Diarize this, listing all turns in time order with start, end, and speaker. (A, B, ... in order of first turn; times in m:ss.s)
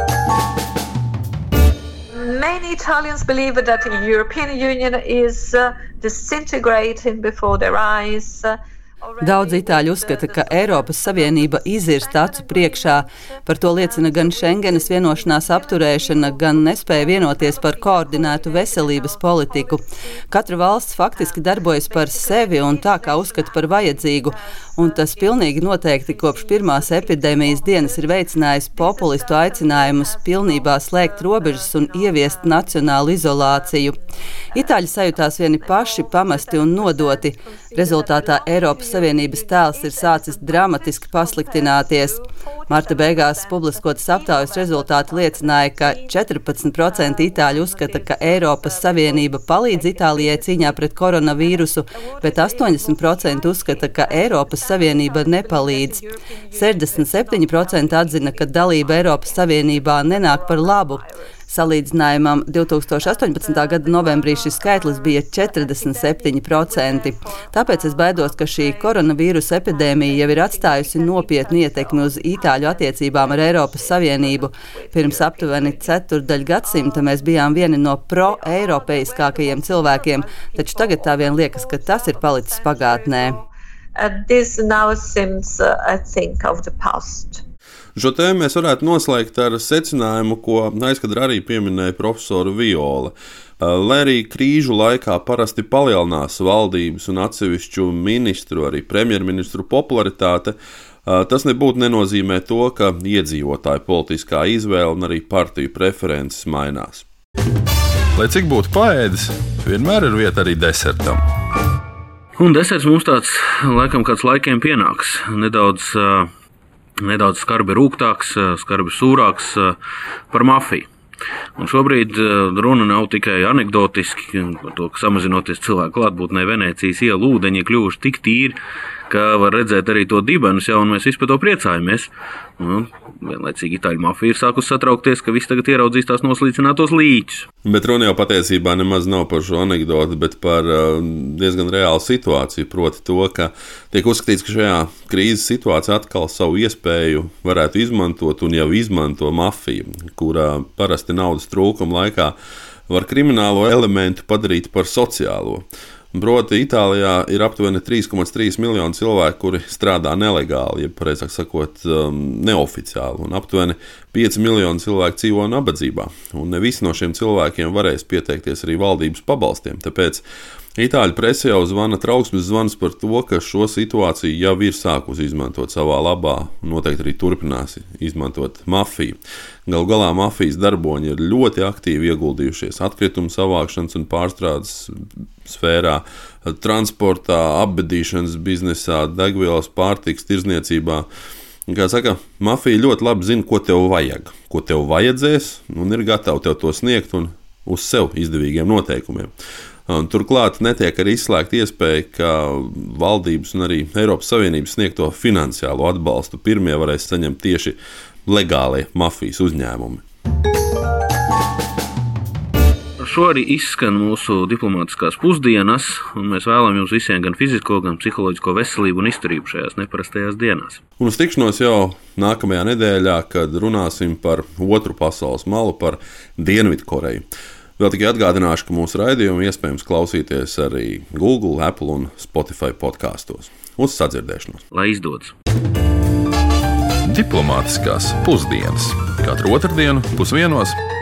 0:02.1-0:20.2 A
0:09.2-0:34.0 B
0:20.8-1:01.8 A
0:34.5-1:23.4 B
1:03.0-1:27.4 A
1:28.0-1:40.6 C
1:41.1-1:47.0 C
1:48.2-1:51.1 D
1:52.4-1:56.3 E
1:57.0-1:59.8 E
2:00.3-2:00.9 E
2:01.6-2:08.6 E
2:09.1-2:17.5 E
2:17.6-2:32.3 C
2:32.9-2:50.2 C
2:50.8-3:04.9 C
3:05.5-3:11.0 C
3:11.7-3:19.3 C
3:19.9-3:30.0 C
3:33.0-3:40.8 E
3:41.0-3:47.3 C
3:47.8-3:54.6 C
3:54.7-3:55.3 E
3:57.0-4:00.7 D